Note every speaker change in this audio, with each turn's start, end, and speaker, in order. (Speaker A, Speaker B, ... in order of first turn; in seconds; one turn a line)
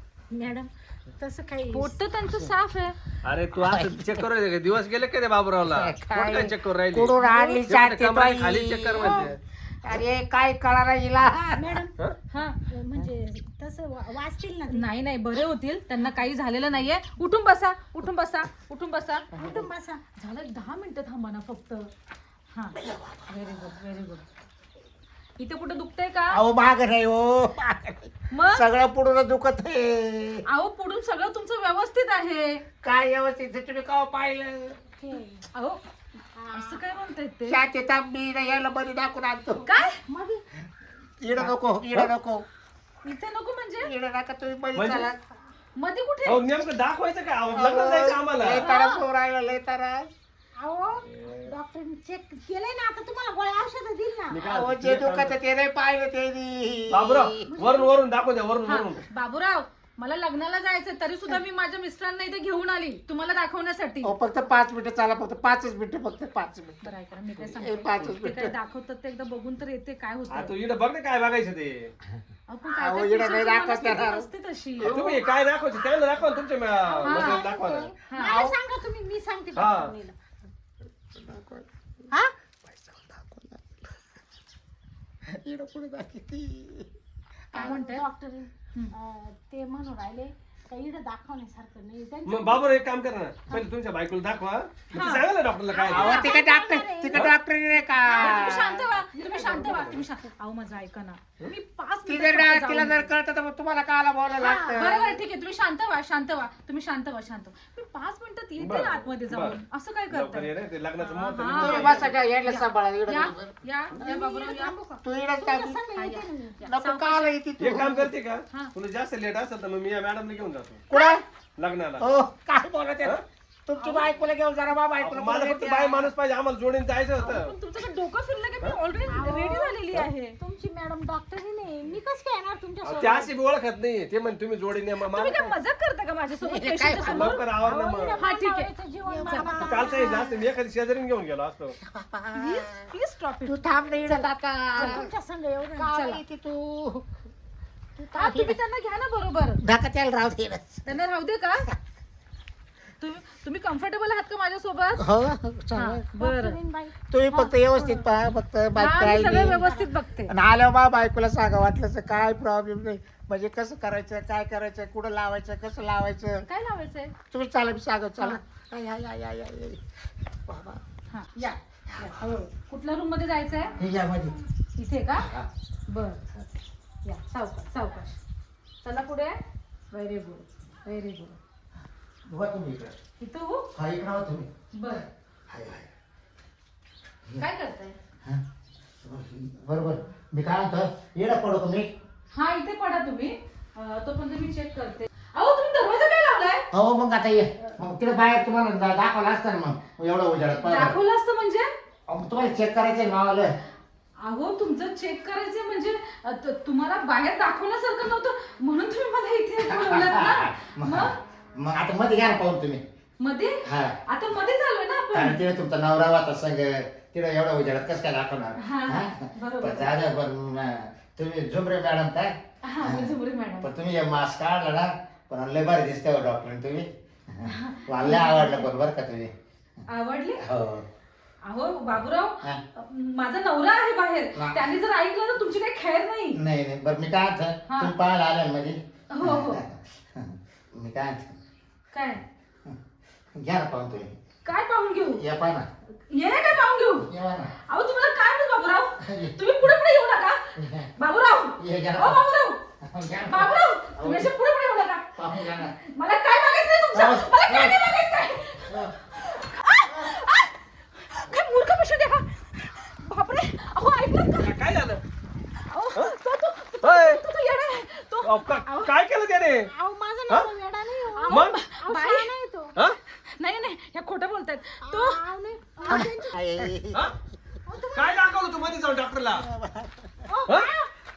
Speaker A: 0.3-2.0
Speaker B: 1.7-3.0
Speaker C: 3.2-9.4
Speaker D: 3.6-4.0
Speaker D: 5.6-11.8
Speaker A: 9.0-9.3
Speaker A: 11.6-11.9
Speaker B: 12.3-12.6
Speaker A: 12.7-14.8
Speaker B: 14.7-19.3
Speaker D: 19.4-19.7
Speaker A: 19.4-20.0
Speaker B: 20.2-21.9
Speaker B: 22.5-24.2
Speaker D: 22.8-23.7
Speaker B: 25.4-26.4
Speaker D: 26.3-30.4
Speaker B: 28.3-28.6
Speaker B: 30.5-32.6
Speaker D: 32.8-34.8
Speaker A: 35.0-35.5
Speaker B: 35.5-35.8
Speaker A: 36.4-36.8
Speaker B: 36.5-37.6
Speaker D: 37.5-39.8
Speaker B: 39.6-40.0
Speaker A: 40.1-40.4
Speaker D: 41.2-42.5
Speaker C: 41.4-42.1
Speaker B: 43.0-43.9
Speaker D: 43.8-45.2
Speaker C: 44.8-45.1
Speaker B: 45.8-46.4
Speaker C: 46.2-48.6
Speaker D: 47.5-50.1
Speaker B: 48.6-49.0
Speaker A: 50.6-54.4
Speaker C: 51.0-51.5
Speaker C: 54.3-55.4
Speaker D: 54.4-57.5
Speaker C: 56.9-59.0
Speaker A: 57.5-58.0
Speaker B: 58.7-64.1
Speaker D: 64.0-68.6
Speaker B: 66.8-70.5
Speaker C: 70.3-71.9
Speaker B: 72.5-74.9
Speaker D: 72.7-74.3
Speaker D: 74.8-75.2
Speaker C: 74.8-78.0
Speaker A: 76.8-80.2
Speaker B: 77.0-77.4
Speaker B: 78.1-78.5
Speaker C: 79.5-79.9
Speaker D: 81.1-82.1
Speaker D: 82.7-83.8
Speaker D: 85.3-86.9
Speaker A: 87.5-92.7
Speaker B: 87.5-88.0
Speaker C: 92.3-96.3
Speaker B: 94.9-95.3
Speaker A: 95.7-97.3
Speaker D: 95.9-98.9
Speaker B: 98.0-103.1
Speaker A: 98.2-100.0
Speaker C: 99.6-100.0
Speaker D: 102.1-105.2
Speaker A: 104.4-105.0
Speaker B: 104.8-114.8
Speaker C: 108.6-112.1
Speaker D: 111.6-113.5
Speaker A: 114.0-116.6
Speaker D: 115.0-115.8
Speaker B: 116.0-117.3
Speaker D: 116.7-118.1
Speaker C: 117.6-120.8
Speaker D: 120.9-121.2
Speaker C: 121.6-122.0
Speaker D: 122.0-126.1
Speaker C: 125.0-127.5
Speaker B: 127.2-130.4
Speaker A: 129.1-129.8
Speaker A: 130.4-133.4
Speaker C: 132.8-135.5
Speaker B: 135.1-137.4
Speaker D: 136.4-137.4
Speaker C: 137.1-138.2
Speaker A: 137.6-140.3
Speaker B: 138.2-138.7
Speaker D: 139.1-139.9
Speaker B: 139.3-140.2
Speaker C: 139.6-141.8
Speaker D: 141.9-142.9
Speaker B: 142.3-143.8
Speaker D: 143.5-145.1
Speaker A: 144.1-145.9
Speaker D: 145.8-147.1
Speaker B: 145.9-146.2
Speaker D: 148.0-148.6
Speaker B: 148.2-149.6
Speaker D: 149.6-151.0
Speaker B: 150.9-151.7
Speaker B: 153.0-155.0
Speaker D: 155.0-156.0
Speaker B: 155.8-156.6
Speaker A: 156.2-156.9
Speaker D: 157.1-159.7
Speaker A: 157.7-158.1
Speaker B: 158.8-160.3
Speaker A: 159.3-159.9
Speaker D: 160.3-166.4
Speaker B: 166.5-167.1
Speaker D: 167.3-169.8
Speaker D: 170.5-170.8
Speaker A: 171.4-172.4
Speaker D: 171.9-172.4
Speaker B: 172.5-173.8
Speaker D: 173.8-174.4
Speaker B: 174.8-175.3
Speaker D: 175.2-175.5
Speaker B: 175.9-176.2
Speaker B: 177.1-178.2
Speaker B: 178.8-179.4
Speaker B: 179.9-181.4
Speaker D: 182.3-183.0
Speaker B: 183.2-183.7
Speaker D: 183.7-185.9
Speaker B: 184.7-185.1
Speaker B: 187.4-188.0
Speaker D: 189.0-191.9
Speaker B: 192.3-196.7
Speaker D: 196.7-201.0
Speaker B: 200.6-201.7
Speaker D: 202.1-203.5
Speaker B: 204.2-211.2
Speaker D: 209.7-212.8
Speaker B: 213.2-215.4
Speaker D: 213.6-214.0
Speaker D: 215.1-229.3
Speaker B: 218.6-219.9
Speaker B: 222.6-223.7
Speaker B: 227.4-228.7
Speaker B: 229.9-230.4
Speaker D: 230.4-230.9
Speaker B: 231.4-236.4
Speaker D: 234.4-234.7
Speaker D: 236.3-241.4
Speaker B: 237.7-237.9
Speaker B: 239.1-239.6
Speaker B: 241.9-242.2
Speaker D: 243.4-244.2
Speaker B: 244.4-245.2
Speaker D: 245.1-245.7
Speaker B: 246.1-247.1
Speaker D: 247.0-247.5
Speaker B: 247.6-252.6
Speaker D: 249.0-249.7
Speaker D: 250.6-250.9
Speaker D: 251.6-252.2
Speaker D: 252.8-254.3
Speaker B: 253.3-260.5
Speaker D: 255.2-255.7
Speaker D: 256.9-257.8
Speaker D: 258.7-258.9
Speaker B: 261.1-264.5
Speaker C: 264.4-265.0
Speaker B: 265.6-268.6
Speaker C: 266.8-267.2
Speaker C: 268.2-269.7
Speaker A: 268.7-268.9
Speaker A: 269.7-272.8
Speaker C: 271.3-271.6
Speaker B: 271.3-272.3
Speaker B: 273.1-275.2
Speaker A: 274.8-276.4
Speaker D: 275.9-277.1
Speaker A: 277.7-278.5
Speaker C: 277.9-279.4
Speaker D: 279.4-280.3
Speaker A: 280.3-280.9